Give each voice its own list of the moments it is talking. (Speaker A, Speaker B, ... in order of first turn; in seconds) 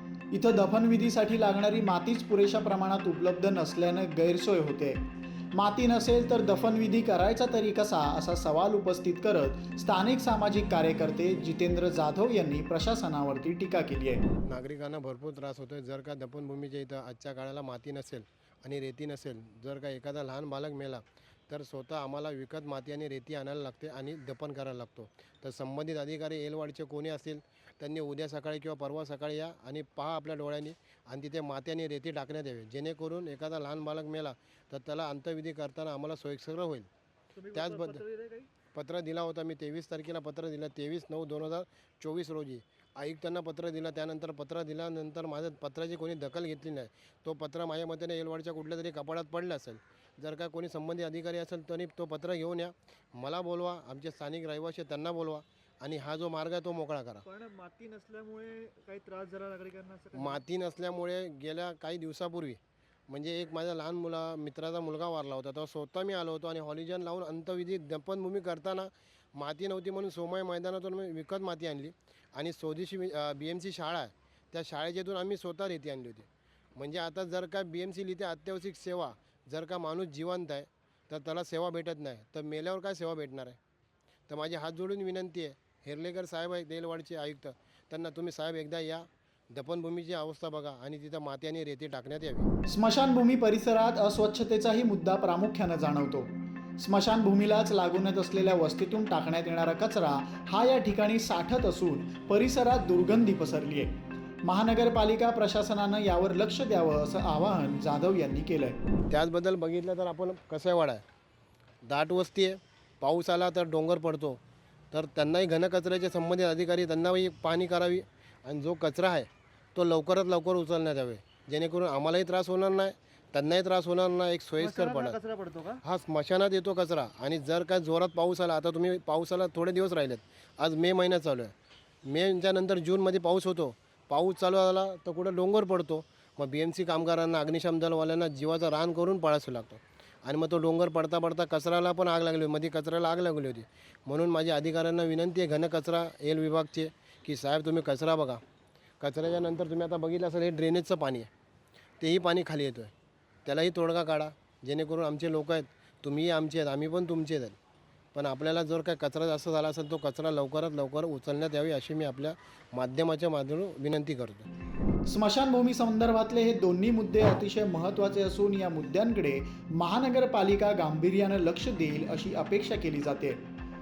Speaker A: 0.3-14.2, 92.7-103.9, 104.4-108.8, 165.1-173.4
Speaker B: 14.5-36.9, 37.5-38.0, 38.7-57.2, 60.1-83.6, 84.3-92.5, 109.1-111.0, 111.8-125.2, 125.8-131.5, 132.1-148.4, 149.0-151.3, 152.0-152.9, 153.4-157.6, 158.1-164.5
Speaker C: 37.4-38.5, 57.2-60.4, 124.6-125.8